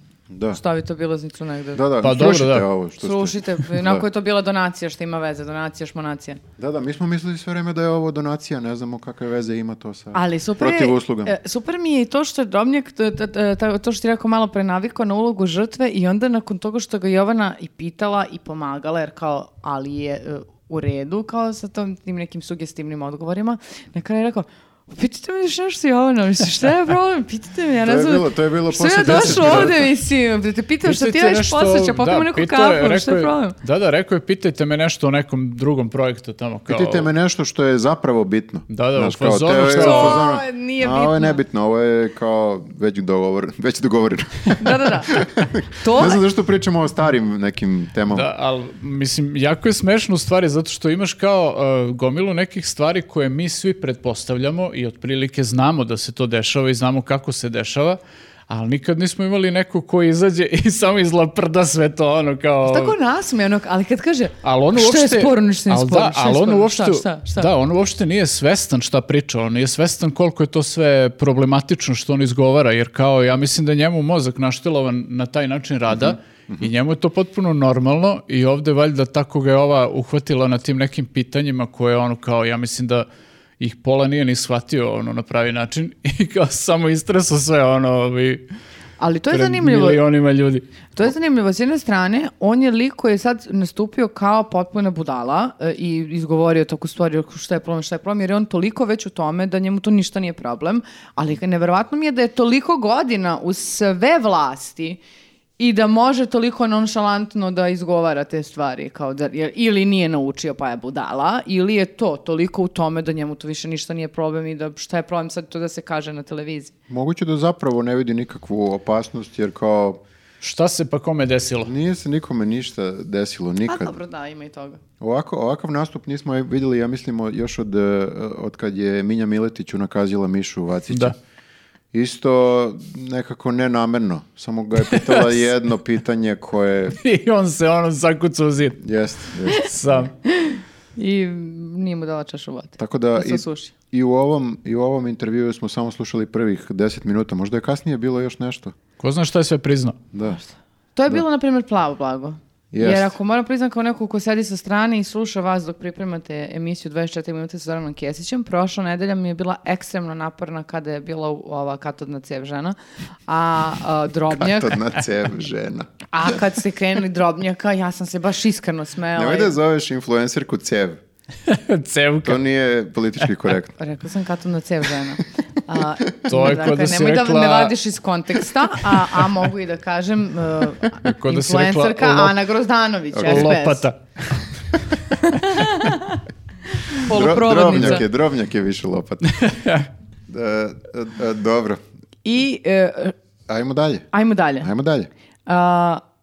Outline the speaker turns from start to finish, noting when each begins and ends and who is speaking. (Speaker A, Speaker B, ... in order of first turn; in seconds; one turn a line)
Speaker A: 0.3-0.6
Speaker B: 0.5-1.8
Speaker A: 1.8-4.0
Speaker C: 2.0-2.7
Speaker B: 3.0-6.4
Speaker A: 6.6-11.3
Speaker B: 10.1-33.6
Speaker A: 27.9-29.9
Speaker C: 29.0-29.8
Speaker C: 30.9-37.1
Speaker A: 36.7-48.3
Speaker C: 38.7-40.2
Speaker B: 39.7-41.4
Speaker B: 44.6-45.2
Speaker B: 45.8-46.2
Speaker C: 48.1-63.0
Speaker B: 62.6-67.5
Speaker C: 64.4-83.1
Speaker A: 75.9-76.7
Speaker C: 83.6-88.5
Speaker B: 89.0-90.0
Speaker C: 89.3-90.7
Speaker B: 90.9-105.0
Speaker B: 105.6-116.7
Speaker A: 116.9-120.0
Speaker C: 120.4-121.7
Speaker A: 121.6-123.9
Speaker B: 123.7-124.8
Speaker A: 125.0-131.2
Speaker A: 131.9-137.0
Speaker C: 134.9-135.4
Speaker C: 137.0-138.8
Speaker A: 138.8-140.1
Speaker C: 139.5-140.1
Speaker B: 140.2-143.7
Speaker A: 142.8-148.8
Speaker C: 149.0-150.0
Speaker A: 150.1-150.4
Speaker B: 151.0-164.9
Speaker A: 152.7-153.2
Speaker A: 164.3-165.9
Speaker B: 166.1-169.6
Speaker A: 169.2-171.0
Speaker C: 171.4-172.4
Speaker A: 172.2-173.8
Speaker B: 173.8-183.9
Speaker C: 176.3-177.8
Speaker C: 181.0-182.4
Speaker A: 183.1-183.6
Speaker C: 183.2-184.0
Speaker B: 185.1-186.2
Speaker B: 186.7-188.1
Speaker A: 187.1-189.4
Speaker C: 189.3-189.9
Speaker A: 190.3-191.8
Speaker B: 192.2-193.2
Speaker A: 193.5-194.1
Speaker B: 194.1-194.7
Speaker A: 194.6-195.1
Speaker B: 195.5-196.0